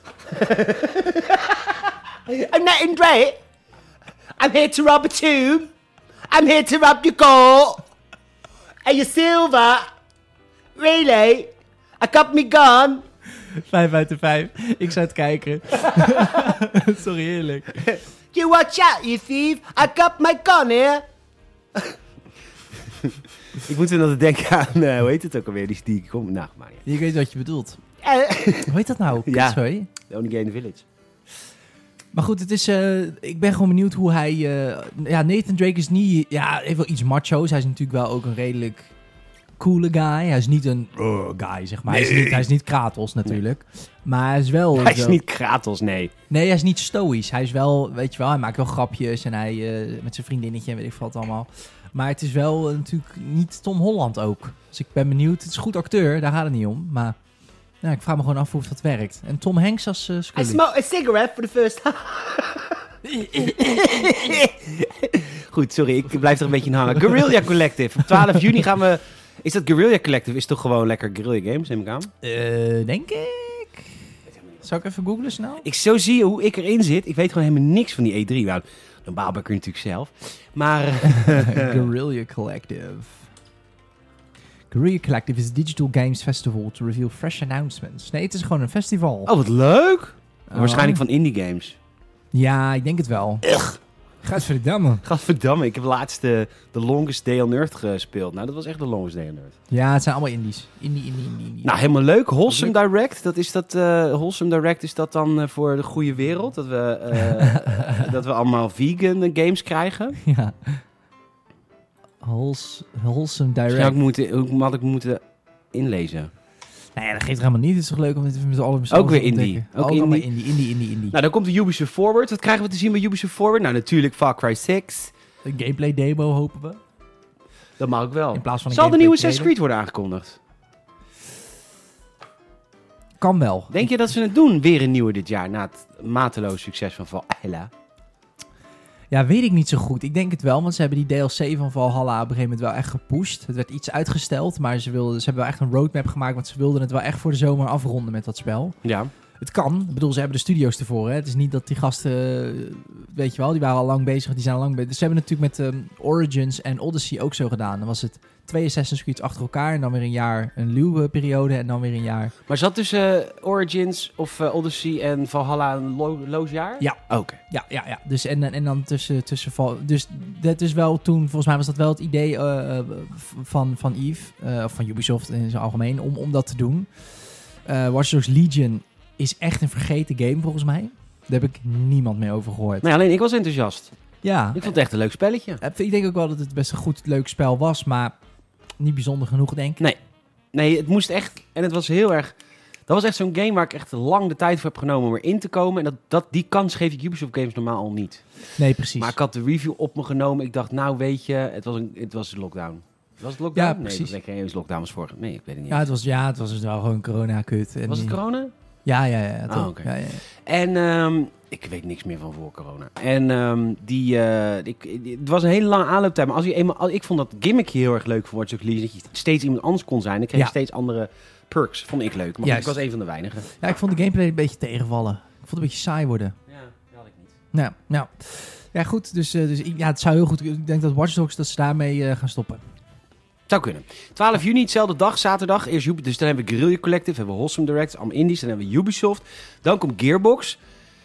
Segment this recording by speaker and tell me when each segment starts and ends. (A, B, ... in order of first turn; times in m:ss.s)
0:00.3-0:03.4 A
0:04.4-0:05.7 A
0:06.3-0:07.8 A
0:08.8-0:09.9 A
0:10.8-0:13.0 A
0:13.4-0:17.9 B
0:17.9-0:21.0 A
0:22.9-0:26.8 A
0:26.8-0:27.8 B
0:28.0-0:30.8 A
0:28.6-0:29.9 B
0:32.1-0:38.9 B
0:39.6-0:45.2 B
0:41.9-0:42.5 A
0:44.8-0:46.1 A
0:46.3-0:57.2 B
0:57.8-1:00.6 B
1:00.3-1:12.1 A
1:03.0-1:04.2 B
1:12.2-1:14.1 B
1:14.6-1:15.6 B
1:15.6-1:21.9 A
1:21.0-1:23.3 B
1:24.7-1:29.3 B
1:29.2-1:31.8 A
1:30.5-1:31.0 B
1:32.3-1:33.5 B
1:34.2-1:35.0 B
1:35.0-1:39.6 A
1:39.7-1:41.7 B
1:41.6-1:50.2 A
1:42.5-1:42.7 B
1:47.2-1:48.1 B
1:50.2-1:50.8 B
1:52.2-1:54.0 B
1:53.7-1:55.2 A
1:55.7-1:56.3 A
1:57.0-2:01.2 B
1:58.9-2:00.3 A
2:01.1-2:05.1 A
2:05.4-2:06.8 B
2:07.8-2:10.4 A
2:08.3-2:09.5 B
2:13.2-2:13.9 B
2:13.7-2:17.7 A
2:19.1-2:28.8 B
2:28.8-2:29.1 A
2:29.4-2:42.3 B
2:42.5-2:47.4 A
2:46.8-2:56.9 B
2:57.6-3:02.8 B
3:02.8-3:03.9 A
3:04.2-3:04.7 B
3:04.5-3:05.6 A
3:05.6-3:08.2 B
3:08.8-3:09.8 B
3:10.5-3:12.3 A
3:12.9-3:18.3 A
3:18.6-3:19.1 B
3:19.0-3:25.8 A
3:23.5-3:24.1 B
3:25.7-3:28.2 B
3:27.9-3:28.5 A
3:28.8-3:30.2 B
3:29.5-3:43.5 A
3:42.4-3:42.8 B
3:43.6-3:46.4 B
3:46.5-3:47.4 A
3:47.5-3:52.6 B
3:53.5-4:00.6 A